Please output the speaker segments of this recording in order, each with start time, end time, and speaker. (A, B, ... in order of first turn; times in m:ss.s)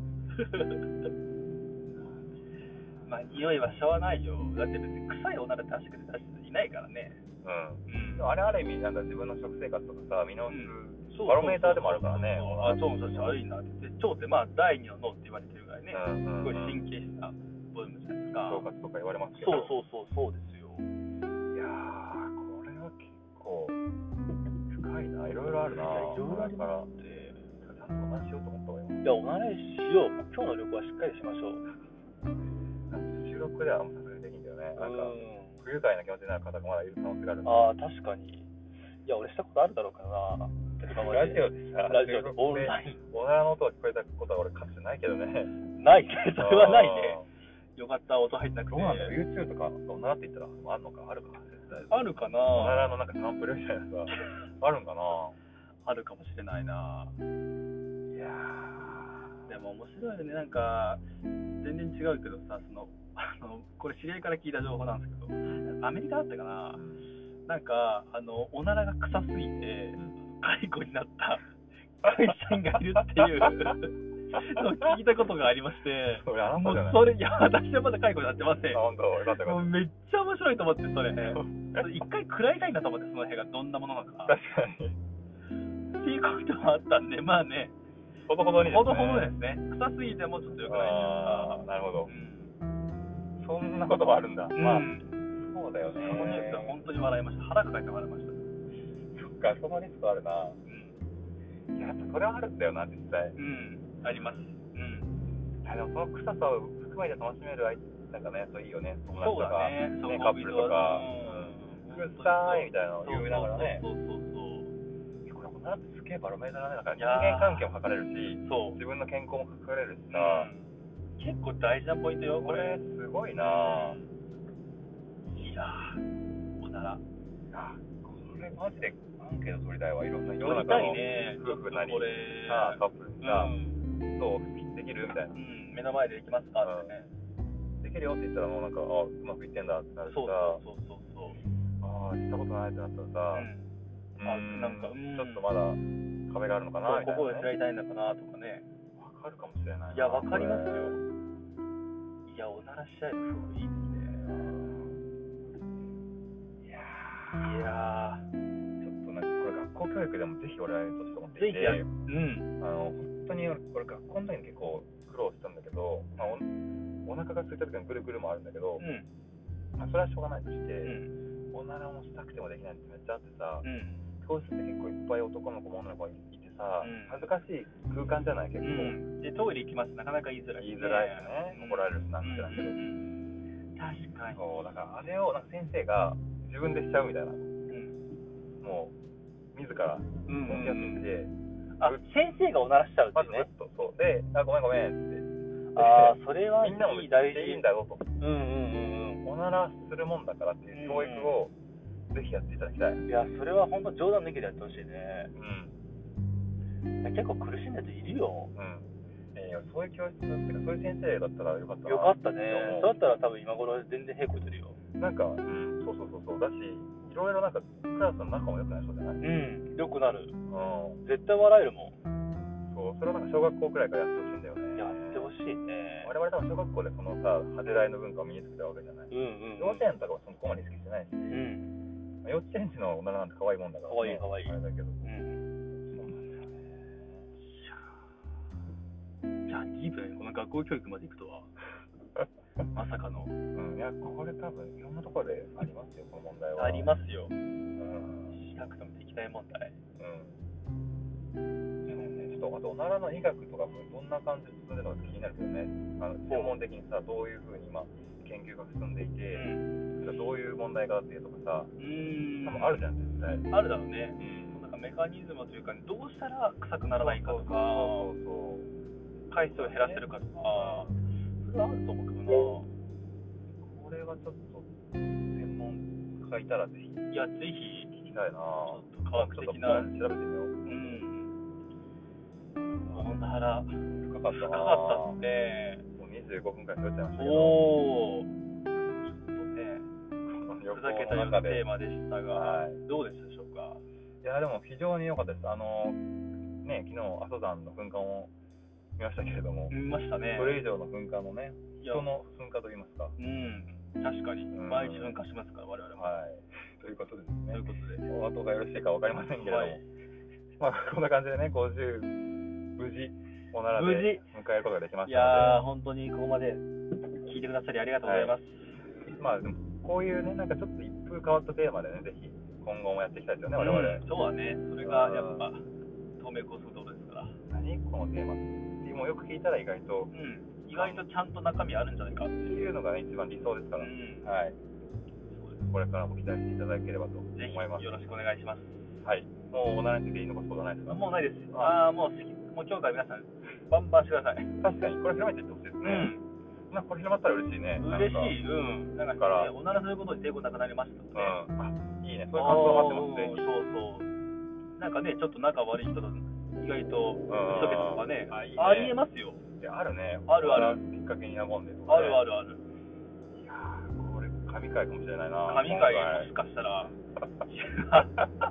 0:00.3-0:00.9 A
0:01.9-0:02.4 B
0:03.1-0:07.2 A
0:07.4-0:13.4 B
0:07.9-0:08.4 A
0:10.5-0:18.6 A
0:15.9-0:16.8 B
0:18.4-0:19.7 B
0:19.4-0:20.9 A
0:21.5-0:23.8 B
0:24.7-0:26.9 B
0:25.7-0:27.5 A
0:27.6-0:29.0 B
0:29.0-0:31.6 A
0:32.9-0:37.7 B
0:34.8-0:35.6 A
0:37.4-0:38.5 A
0:39.1-0:43.0 A
0:40.9-0:45.6 B
0:45.8-0:47.2 A
0:46.4-0:47.3 B
0:47.8-0:49.2 A
0:48.7-0:52.0 B
0:51.9-0:52.9 A
0:52.5-0:55.4 B
0:54.1-0:54.4 A
0:55.8-0:57.2 A
0:58.1-0:59.4 B
0:59.5-1:01.0 A
1:01.6-1:06.8 A
1:06.8-1:07.0 B
1:07.5-1:11.5 A
1:12.0-1:18.8 A
1:12.0-1:13.7 B
1:14.3-1:15.0 B
1:16.2-1:17.3 B
1:18.7-1:19.7 B
1:19.4-1:24.4 A
1:21.3-1:21.9 B
1:24.3-1:25.0 B
1:26.0-1:27.8 A
1:28.3-1:29.4 B
1:28.6-1:32.5 A
1:30.7-1:32.1 B
1:33.4-1:36.7 B
1:34.6-1:35.1 A
1:36.0-1:38.4 A
1:39.1-1:40.6 B
1:40.7-1:41.0 A
1:41.7-1:43.4 B
1:43.4-1:45.1 A
1:44.0-1:44.5 B
1:45.6-1:53.8 B
1:49.2-1:54.7 A
1:55.3-2:00.5 B
1:57.0-1:57.7 A
1:58.4-1:58.8 A
2:00.1-2:00.7 A
2:01.2-2:02.8 A
2:02.3-2:04.1 B
2:03.4-2:04.0 A
2:05.4-2:06.0 A
2:06.6-2:07.0 A
2:07.5-2:13.6 B
2:10.4-2:13.8 A
2:14.1-2:15.4 B
2:15.4-2:17.1 A
2:16.6-2:16.9 B
2:17.8-2:20.6 B
2:20.1-2:21.4 A
2:21.8-2:23.5 B
2:23.3-2:23.7 A
2:24.2-2:27.5 B
2:24.2-2:25.5 A
2:26.8-2:28.7 A
2:29.0-2:31.0 B
2:29.9-2:31.0 A
2:32.3-2:34.4 A
2:34.3-2:35.0 B
2:36.6-2:37.7 B
2:37.4-2:38.3 A
2:38.8-2:41.9 B
2:41.4-2:42.5 A
2:42.6-2:46.5 B
2:47.0-2:48.8 B
2:48.8-2:49.1 A
2:49.8-2:51.0 B
2:50.8-2:51.1 A
2:51.5-2:53.7 B
2:53.6-2:54.0 A
2:54.2-2:59.0 B
2:56.8-2:57.3 A
2:58.6-3:03.2 A
3:00.6-3:02.8 B
3:03.8-3:04.8 A
3:04.3-3:07.5 B
3:07.7-3:08.0 A
3:08.6-3:09.0 B
3:09.5-3:12.0 B
3:10.3-3:11.1 A
3:11.8-3:13.5 A
3:13.1-3:18.0 B
3:15.8-3:17.6 A
3:18.2-3:19.2 A
3:19.2-3:21.5 B
3:20.7-3:21.4 A
3:22.1-3:23.0 B
3:23.1-3:25.3 A
3:25.3-3:25.8 B
3:27.0-3:28.5 A
3:28.6-3:33.0 B
3:31.9-3:34.8 A
3:35.0-3:39.2 B
3:39.2-3:40.4 A
3:40.5-3:41.0 B
3:41.0-3:42.0 A
3:42.7-3:45.3 B
3:44.8-3:46.1 A
3:46.0-3:51.5 B
3:49.1-3:49.9 A
3:51.3-3:51.7 A
3:52.2-3:55.1 B
3:53.9-3:55.4 A
3:55.8-3:57.2 B
3:57.4-3:58.0 A
3:59.5-4:01.5 A
4:02.7-4:03.3 A
4:03.5-4:06.9 B
4:06.6-4:07.3 A
4:07.8-4:08.4 B
4:08.3-4:09.8 A
4:10.0-4:10.4 B
4:11.9-4:12.4 A
4:11.9-4:21.7 B
4:16.3-4:16.6 A
4:19.3-4:19.7 A
4:21.8-4:22.9 A
4:22.4-4:23.5 B
4:23.5-4:28.1 A
4:24.2-4:24.6 B
4:27.0-4:28.7 B
4:29.3-4:32.7 A
4:29.5-4:30.9 B
4:33.6-4:34.7 B
4:35.3-4:37.0 B
4:37.1-4:37.9 A
4:37.9-4:41.0 B
4:38.7-4:39.9 A
4:40.7-4:41.3 A
4:42.7-4:43.1 B
4:42.9-4:45.8 A
4:43.9-4:45.2 B
4:46.0-4:47.7 B
4:47.2-4:48.3 A
4:49.0-4:49.9 A
4:50.3-4:51.7 B
4:50.7-4:53.8 A
4:52.3-4:52.8 B
4:54.2-4:56.0 B
4:56.6-4:58.3 B
4:59.0-4:59.8 B
4:59.7-5:00.6 A
5:00.4-5:03.2 B
5:01.8-5:02.1 A
5:03.2-5:06.2 A
5:04.5-5:05.2 B
5:06.0-5:09.8 B
5:07.5-5:08.1 A
5:09.4-5:09.8 A
5:10.6-5:12.1 B
5:12.8-5:15.6 B
5:13.8-5:14.2 A
5:15.1-5:16.6 A
5:17.2-5:18.7 A
5:18.0-5:18.4 B
5:19.1-5:24.0 B
5:23.6-5:25.6 A
5:24.8-5:25.5 B
5:26.2-5:27.3 A
5:27.3-5:30.1 B
5:30.1-5:32.7 A
5:30.7-5:31.1 B
5:32.4-5:34.6 B
5:33.8-5:34.3 A
5:35.3-5:35.7 A
5:35.7-5:38.0 B
5:37.3-5:38.8 A
5:39.0-5:41.8 B
5:40.9-5:44.5 A
5:44.6-5:46.1 B
5:45.8-5:46.3 A
5:46.7-5:48.4 B
5:47.8-5:51.4 A
5:49.2-5:49.5 B
5:51.1-5:53.5 B
5:52.3-5:54.1 A
5:54.8-5:59.4 A
5:57.3-5:59.0 B
5:59.6-6:02.2 B
6:00.3-6:00.8 A
6:01.9-6:02.6 A
6:03.4-6:06.3 B
6:05.5-6:06.9 A
6:07.5-6:08.2 A
6:07.9-6:08.3 B